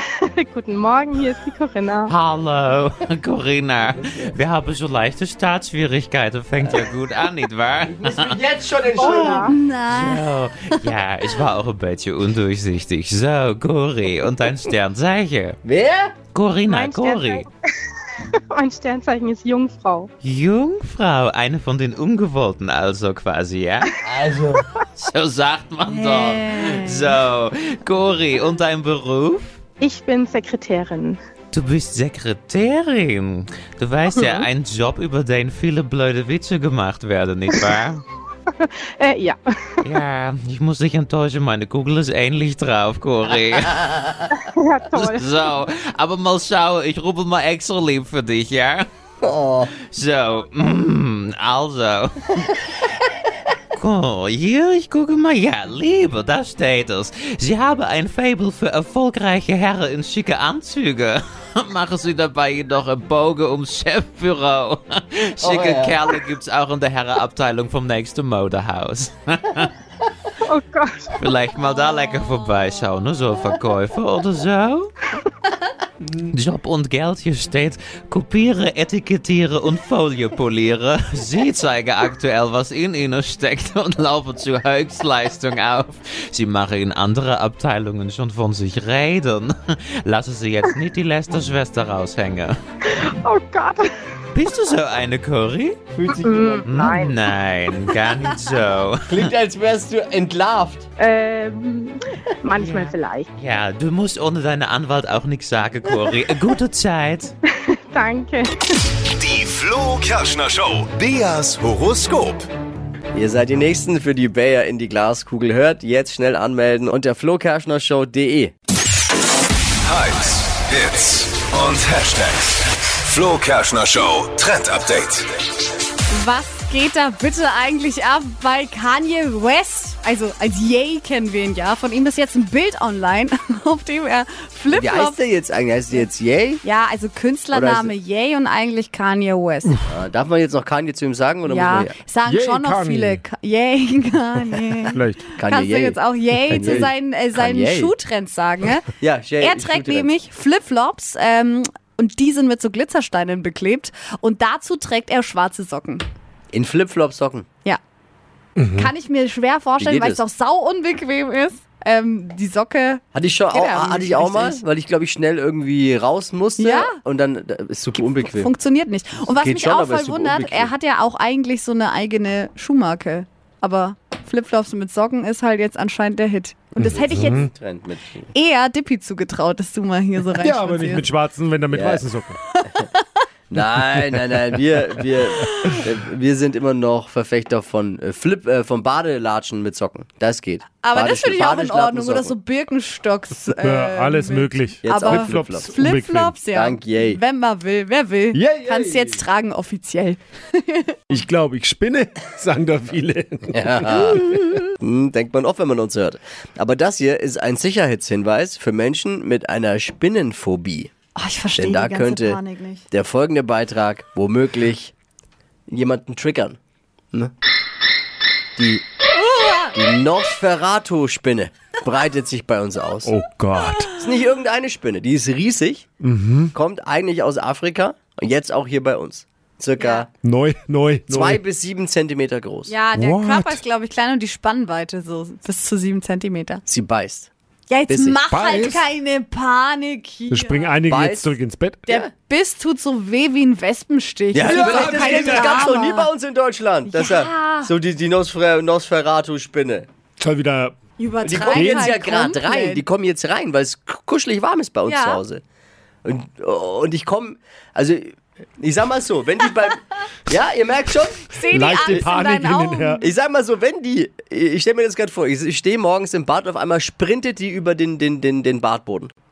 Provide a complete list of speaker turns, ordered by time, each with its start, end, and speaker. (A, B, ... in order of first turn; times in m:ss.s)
0:00.1-0:02.1 A
0:02.1-0:08.4 B
0:04.1-0:04.3 C
0:07.9-0:09.5 C
0:09.0-0:09.6 A
0:09.3-0:10.3 D
0:09.9-0:15.6 B
0:15.6-0:16.2 C
0:16.3-0:17.5 B
0:16.7-0:20.1 A
0:20.2-0:23.9 B
0:24.0-0:24.7 C
0:25.0-0:29.6 B
0:25.9-0:27.2 D
0:29.8-0:31.2 A
0:31.5-0:38.0 B
0:34.2-0:34.5 A
0:38.6-0:39.4 A
0:39.8-0:44.2 B
0:43.8-0:44.2 C
0:44.5-0:45.3 A
0:44.9-0:48.9 B
0:49.2-0:49.7 C
0:49.9-0:52.5 B
0:53.7-1:09.8 B
1:05.4-1:06.1 C
1:10.5-1:11.1 A
1:11.2-1:14.9 B
1:16.2-1:32.6 B
1:33.2-1:33.9 A
1:34.3-1:35.8 B
1:35.9-1:37.0 C
1:36.2-1:37.2 A
1:36.6-1:39.3 B
1:39.1-1:40.9 C
1:41.0-1:43.3 A
1:42.6-1:47.3 B
1:47.9-1:48.8 A
1:49.2-1:52.5 E
1:53.1-1:58.5 C
1:59.8-2:05.3 E
2:06.1-2:15.2 D
2:14.7-2:16.6 C
2:16.6-2:19.8 D
2:17.5-2:17.9 C
2:19.9-2:22.0 C
2:21.5-2:28.9 D
2:22.3-2:23.2 F
2:24.9-2:25.2 F
2:25.4-2:27.9 C
2:26.5-2:26.9 F
2:29.0-2:30.1 C
2:29.4-2:36.0 D
2:36.5-2:37.5 C
2:38.6-2:38.9 F
2:38.8-2:44.6 D
2:39.8-2:40.2 C
2:43.1-2:48.5 C
2:46.6-2:47.0 D
2:48.3-2:57.5 D
2:49.3-2:50.7 C
2:56.8-2:57.5 F
2:56.8-2:58.3 C
2:58.3-3:01.0 D
3:00.4-3:02.4 F
3:01.7-3:02.0 C
3:02.5-3:02.8 D
3:03.5-3:12.3 C
3:05.4-3:05.8 D
3:10.8-3:21.2 D
3:13.6-3:16.4 F
3:14.8-3:15.7 C
3:16.5-3:17.2 C
3:18.3-3:19.2 F
3:21.1-3:24.6 F
3:23.5-3:30.9 C
3:31.2-3:32.8 D
3:31.6-3:34.9 C
3:35.7-3:36.6 C
3:38.6-3:38.8 C
3:39.1-3:39.8 D
3:39.7-3:43.1 C
3:43.0-3:43.9 F
3:44.0-3:45.9 C
3:46.0-3:46.5 F
3:46.5-3:50.1 C
3:49.8-3:50.1 D
3:50.2-3:51.4 F
3:51.1-3:52.8 C
3:52.7-3:56.6 D
3:53.0-3:53.6 F
3:56.7-3:57.3 C
3:57.7-4:00.7 D
3:57.9-3:58.2 C
3:58.3-3:58.8 F
4:00.3-4:01.8 F
4:00.9-4:01.4 C
4:01.9-4:06.1 D
4:04.3-4:09.9 C
4:04.4-4:05.6 F
4:06.9-4:07.7 D
4:10.2-4:10.8 F
4:11.0-4:12.8 D
4:11.2-4:15.4 C
4:11.5-4:11.9 F
4:14.9-4:15.2 D
4:16.0-4:21.3 C
4:21.3-4:23.1 D
4:21.5-4:23.0 F
4:23.0-4:29.1 C